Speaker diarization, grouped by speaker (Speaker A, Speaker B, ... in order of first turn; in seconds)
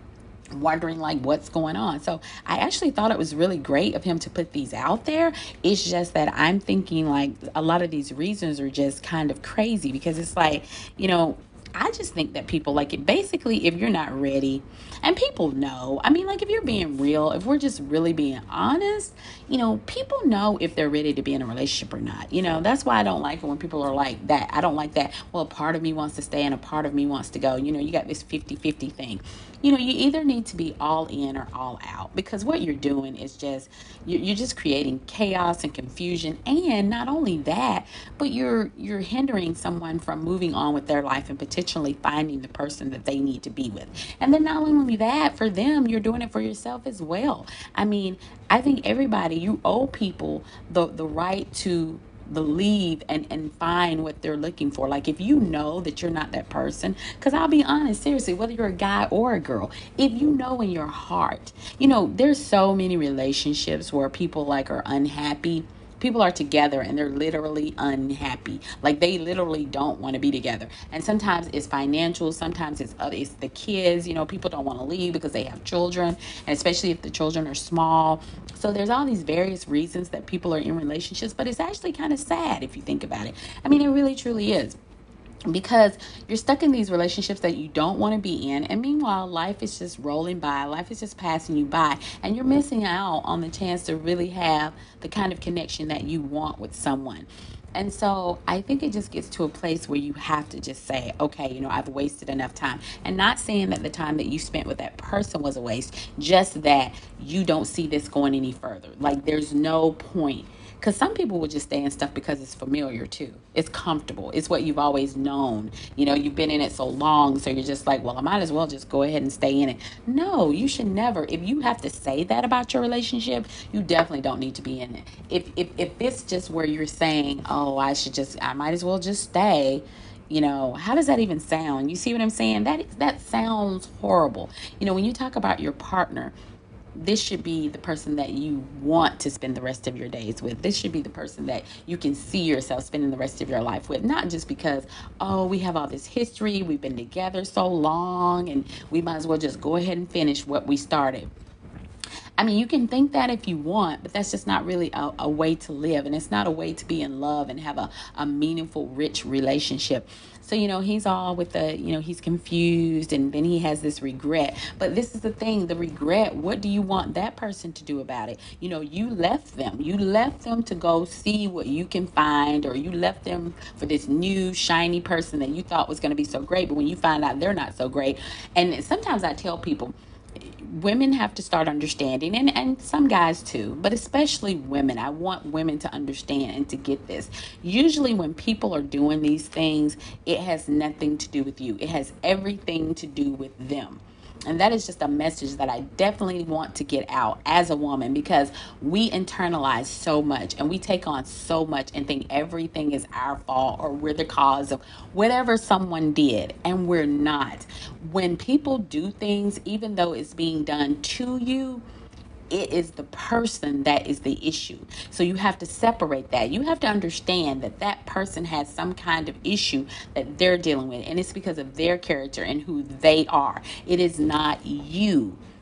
Speaker A: 0.5-84.8, 85.5-136.3, 136.9-151.3, 152.4-211.8, 212.5-225.4